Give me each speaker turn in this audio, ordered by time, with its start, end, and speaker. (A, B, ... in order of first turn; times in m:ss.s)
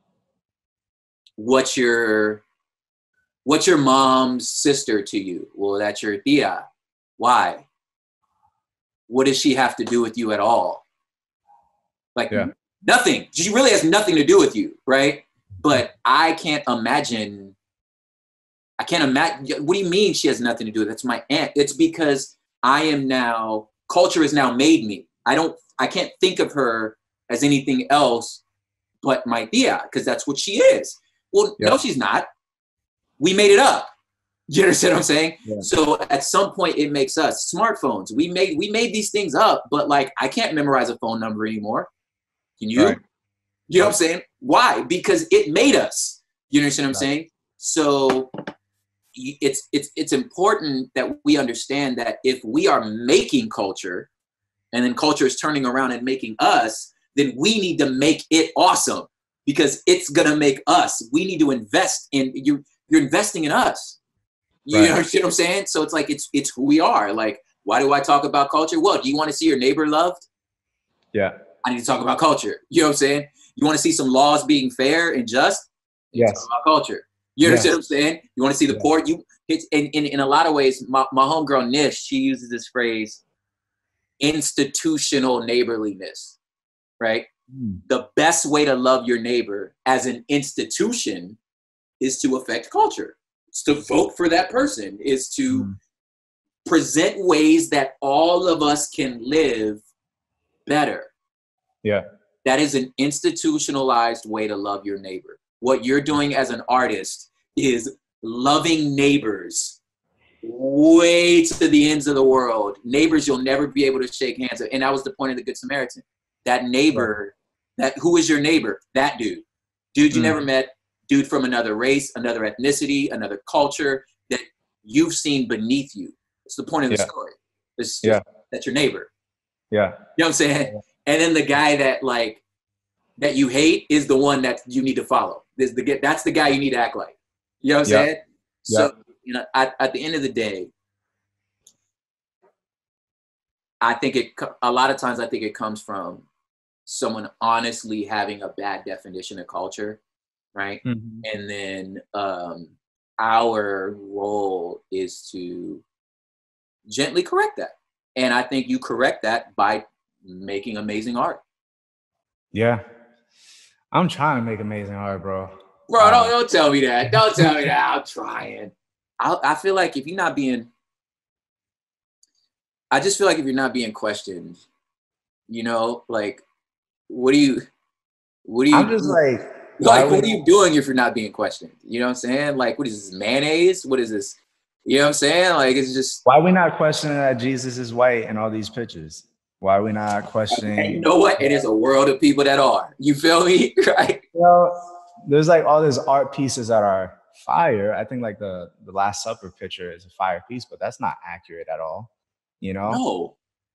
0:01.4-0:02.4 A
0:03.4-0:06.6 A
0:07.2-0:07.6 A
0:09.1-0:10.8 A
0:12.2-0:17.5 A
0:18.8-0:28.4 A
0:29.0-0:32.3 A
0:33.2-0:33.9 A
0:34.5-0:41.9 A
0:42.6-0:43.0 A
0:43.7-0:48.3 A
0:49.1-0:54.1 A
0:54.7-1:04.0 A
1:04.6-1:10.3 A
1:04.7-1:05.0 B
1:11.6-1:23.2 A
1:16.1-1:16.5 B
1:17.4-1:17.7 B
1:24.2-1:26.4 A
1:27.0-1:27.3 A
1:27.5-1:27.8 B
1:27.9-1:31.4 A
1:32.0-1:35.7 A
1:35.5-1:35.7 B
1:36.6-1:39.8 A
1:40.6-1:41.1 A
1:42.4-1:49.8 A
1:50.4-2:09.1 A
2:00.1-2:00.4 B
2:09.7-2:10.0 B
2:10.2-2:12.4 A
2:13.2-2:20.7 A
2:23.8-2:26.2 A
2:26.8-2:30.0 A
2:30.5-2:35.8 A
2:30.8-2:31.2 B
2:36.9-2:41.4 A
2:42.5-2:42.8 B
2:43.9-2:46.3 B
2:45.9-2:50.7 A
2:47.1-2:47.4 B
2:52.9-2:54.6 A
2:55.5-2:56.4 A
2:57.1-2:57.6 A
2:58.4-2:59.2 A
2:58.7-3:00.3 B
2:59.8-3:06.2 A
3:06.2-3:11.6 B
3:10.5-3:14.2 A
3:14.3-3:22.1 B
3:22.6-3:23.0 B
3:22.9-3:23.3 A